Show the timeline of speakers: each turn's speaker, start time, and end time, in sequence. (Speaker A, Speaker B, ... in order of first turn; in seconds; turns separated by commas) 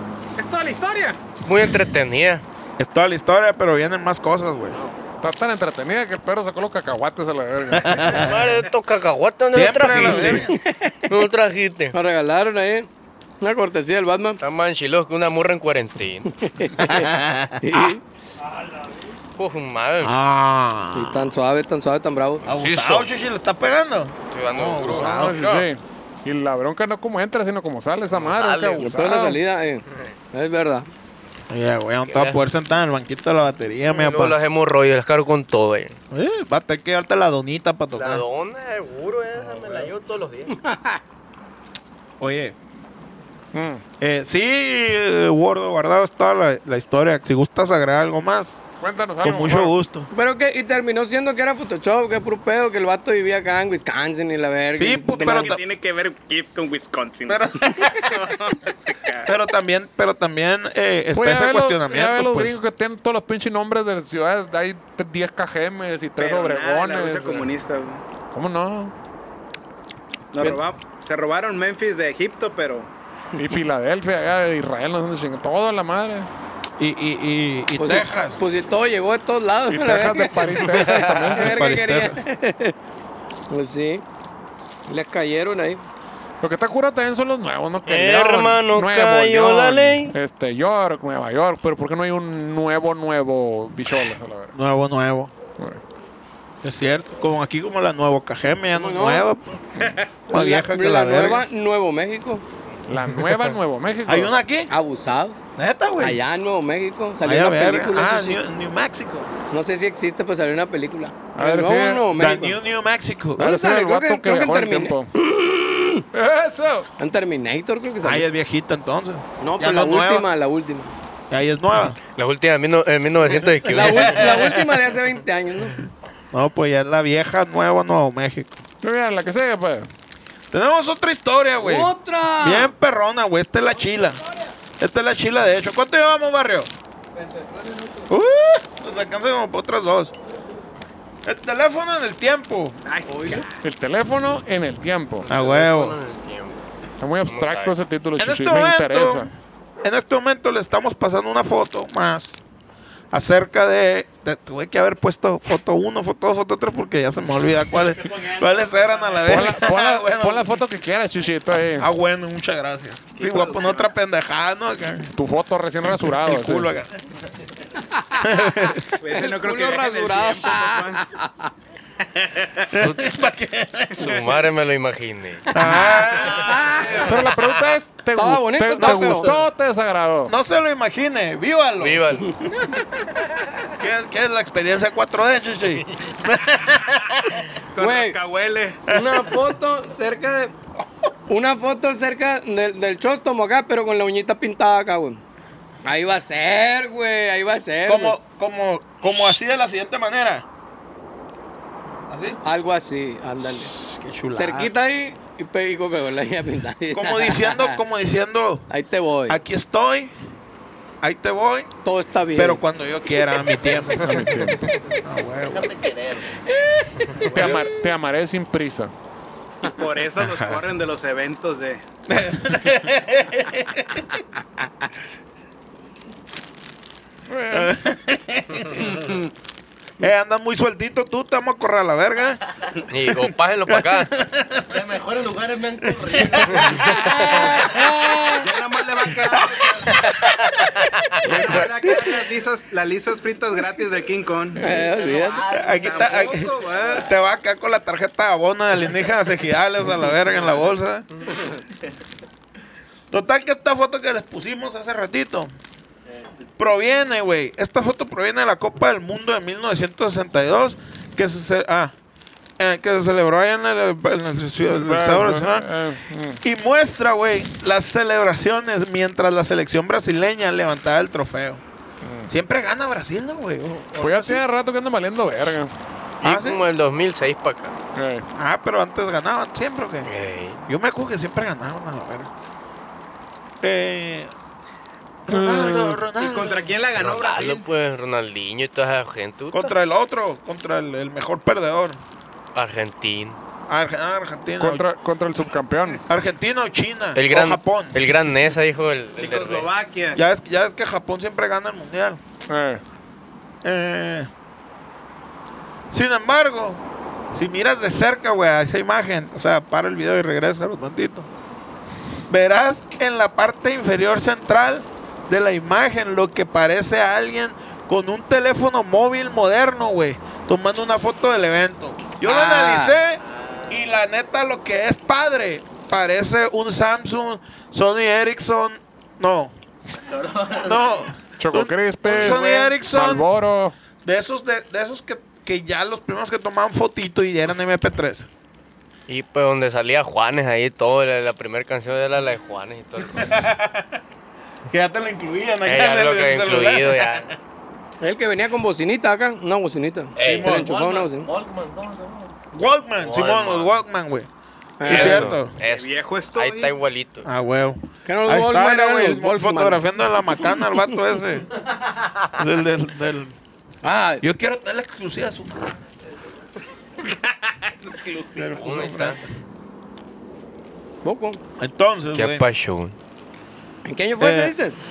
Speaker A: 0.4-1.2, Speaker B: 1.4-2.4, Speaker C: 2.8-4.8, Speaker D: 4.7-8.2, Speaker C: 7.7-8.4, Speaker B: 8.1-10.5, Speaker C: 9.5-10.5, Speaker E: 10.5-11.0, Speaker B: 11.1-11.9, Speaker E: 11.9-12.9, Speaker E: 13.4-14.4, Speaker B: 14.4-16.3, Speaker E: 16.4-18.0, Speaker C: 16.8-17.6, Speaker B: 19.4-20.1, Speaker C: 20.0-21.3, Speaker E: 20.9-22.4, Speaker C: 22.4-25.4, Speaker B: 22.5-23.1, Speaker B: 24.3-25.7, Speaker D: 24.8-29.4, Speaker B: 28.1-28.9, Speaker E: 28.8-30.9, Speaker C: 31.5-34.4, Speaker B: 32.1-32.4, Speaker B: 33.9-36.0, Speaker C: 36.1-38.2, Speaker B: 37.9-40.6, Speaker C: 39.4-39.9, Speaker E: 40.6-41.0, Speaker C: 42.2-42.6, Speaker D: 43.5-43.8, Speaker C: 44.0-48.6, Speaker D: 48.8-49.7, Speaker C: 49.2-50.1, Speaker E: 50.1-55.6, Speaker C: 54.7-55.6, Speaker A: 55.2-59.3, Speaker C: 57.3-58.4, Speaker C: 59.2-62.6, Speaker D: 61.1-67.5, Speaker A: 66.2-68.0, Speaker D: 68.3-68.9, Speaker A: 70.3-72.9, Speaker D: 73.4-76.3, Speaker C: 76.8-78.4, Speaker E: 77.8-82.7, Speaker D: 79.7-81.6, Speaker B: 80.7-81.3, Speaker C: 81.4-82.2, Speaker E: 83.5-84.0, Speaker E: 84.9-85.8, Speaker D: 86.4-94.5, Speaker B: 87.8-90.1, Speaker C: 94.5-95.3, Speaker C: 96.6-99.6, Speaker E: 98.7-99.3, Speaker C: 100.3-101.5, Speaker E: 100.3-102.4, Speaker D: 102.9-104.3, Speaker C: 104.1-104.7, Speaker E: 104.7-105.4, Speaker C: 105.6-106.2, Speaker E: 106.0-108.4, Speaker C: 107.2-109.3, Speaker E: 109.5-112.6, Speaker D: 111.3-112.1, Speaker C: 112.1-113.5, Speaker E: 113.4-116.1, Speaker D: 113.4-115.1, Speaker D: 116.1-116.9, Speaker E: 117.0-118.2, Speaker C: 118.0-120.3, Speaker E: 119.4-120.9, Speaker C: 121.3-122.0, Speaker B: 122.2-124.5, Speaker C: 123.2-124.6, Speaker E: 123.7-125.8, Speaker C: 126.3-128.6, Speaker D: 128.8-129.9, Speaker C: 130.5-134.2, Speaker E: 131.6-132.7, Speaker C: 134.8-136.7, Speaker F: 137.1-138.1, Speaker C: 138.1-140.1, Speaker C: 141.2-142.8, Speaker A: 142.8-143.6, Speaker E: 143.1-143.4, Speaker D: 143.6-145.3, Speaker B: 145.2-146.6, Speaker C: 145.3-146.0, Speaker D: 147.0-149.3, Speaker B: 147.3-147.7, Speaker C: 148.2-149.3, Speaker C: 149.8-152.4, Speaker C: 153.1-160.5, Speaker F: 158.0-159.3, Speaker D: 159.2-161.9, Speaker C: 161.7-165.1, Speaker A: 163.1-163.9, Speaker D: 165.1-166.7, Speaker C: 165.9-167.0, Speaker E: 167.9-168.3, Speaker C: 168.2-168.8, Speaker A: 169.0-171.1, Speaker E: 169.1-171.5, Speaker A: 172.1-172.7, Speaker C: 172.7-174.4, Speaker B: 172.8-173.2, Speaker B: 173.9-175.5, Speaker C: 175.5-176.9, Speaker E: 175.6-177.0, Speaker A: 176.3-177.1, Speaker D: 177.0-180.3, Speaker E: 178.2-179.3, Speaker C: 178.8-179.4, Speaker C: 180.3-182.8, Speaker B: 181.8-182.3, Speaker C: 183.7-187.5, Speaker A: 187.8-188.8, Speaker E: 187.8-188.2, Speaker E: 188.9-190.5, Speaker C: 188.9-189.4, Speaker E: 191.3-195.2, Speaker E: 195.8-198.2, Speaker C: 197.8-200.4, Speaker C: 202.1-202.4, Speaker E: 202.4-203.7, Speaker C: 203.4-204.7, Speaker E: 204.3-207.8, Speaker C: 206.9-208.7, Speaker E: 208.7-209.4, Speaker C: 209.3-210.1, Speaker C: 211.0-211.7, Speaker E: 211.8-212.6, Speaker C: 212.3-215.7, Speaker D: 214.0-214.6, Speaker F: 215.4-216.5, Speaker D: 217.3-218.9, Speaker C: 217.3-217.7, Speaker A: 219.6-221.8, Speaker C: 220.2-220.6, Speaker C: 222.1-224.2, Speaker D: 227.3-227.8, Speaker C: 227.5-228.9, Speaker A: 228.8-229.2, Speaker C: 230.0-232.4, Speaker B: 232.9-234.1, Speaker C: 233.1-234.8, Speaker F: 234.7-237.6, Speaker C: 236.0-237.6, Speaker E: 237.0-238.4, Speaker A: 238.4-240.0, Speaker C: 239.3-240.3, Speaker D: 241.2-241.7, Speaker A: 241.2-244.6, Speaker E: 244.6-245.4, Speaker F: 244.7-246.3, Speaker C: 245.5-251.1, Speaker A: 245.5-247.1, Speaker C: 253.1-255.5, Speaker C: 256.6-261.9, Speaker C: 262.6-265.7, Speaker D: 264.7-266.4, Speaker C: 266.4-271.6, Speaker D: 272.0-272.3, Speaker C: 272.3-274.4, Speaker D: 273.9-275.7, Speaker C: 276.2-276.6, Speaker B: 276.2-277.8, Speaker D: 277.9-278.3, Speaker C: 278.3-280.1, Speaker B: 280.1-280.6, Speaker C: 280.6-282.3, Speaker C: 283.6-284.3, Speaker C: 285.2-286.7, Speaker D: 285.3-286.0, Speaker A: 286.2-287.7, Speaker B: 287.0-289.7, Speaker C: 289.5-292.0, Speaker B: 292.5-293.4, Speaker C: 293.7-294.8, Speaker D: 294.6-296.0, Speaker C: 296.0-298.1, Speaker B: 297.1-299.7, Speaker A: 299.2-300.2, Speaker C: 300.1-302.2, Speaker D: 302.5-302.8, Speaker C: 303.6-304.3, Speaker C: 305.9-306.8, Speaker C: 307.3-311.3, Speaker C: 312.3-329.5, Speaker E: 322.2-323.0, Speaker F: 330.0-331.1, Speaker C: 330.6-333.3, Speaker D: 331.4-333.8, Speaker C: 334.0-338.3, Speaker B: 339.1-343.4, Speaker C: 343.1-343.9, Speaker C: 344.7-347.4, Speaker B: 345.6-347.3, Speaker E: 348.0-351.3, Speaker B: 350.2-350.5, Speaker F: 350.2-352.3, Speaker C: 350.2-350.7, Speaker C: 352.5-354.3, Speaker B: 353.0-353.8, Speaker E: 354.8-355.3, Speaker C: 354.8-355.5, Speaker B: 354.9-357.3, Speaker A: 355.6-356.8, Speaker C: 357.2-361.5, Speaker E: 358.0-359.8, Speaker C: 362.4-363.4, Speaker E: 363.8-364.2, Speaker C: 364.2-365.8, Speaker F: 367.8-368.6, Speaker C: 368.3-369.3, Speaker B: 368.5-369.2, Speaker E: 371.0-371.4, Speaker C: 371.6-372.4, Speaker B: 372.1-372.9, Speaker E: 373.9-374.8, Speaker C: 374.2-374.5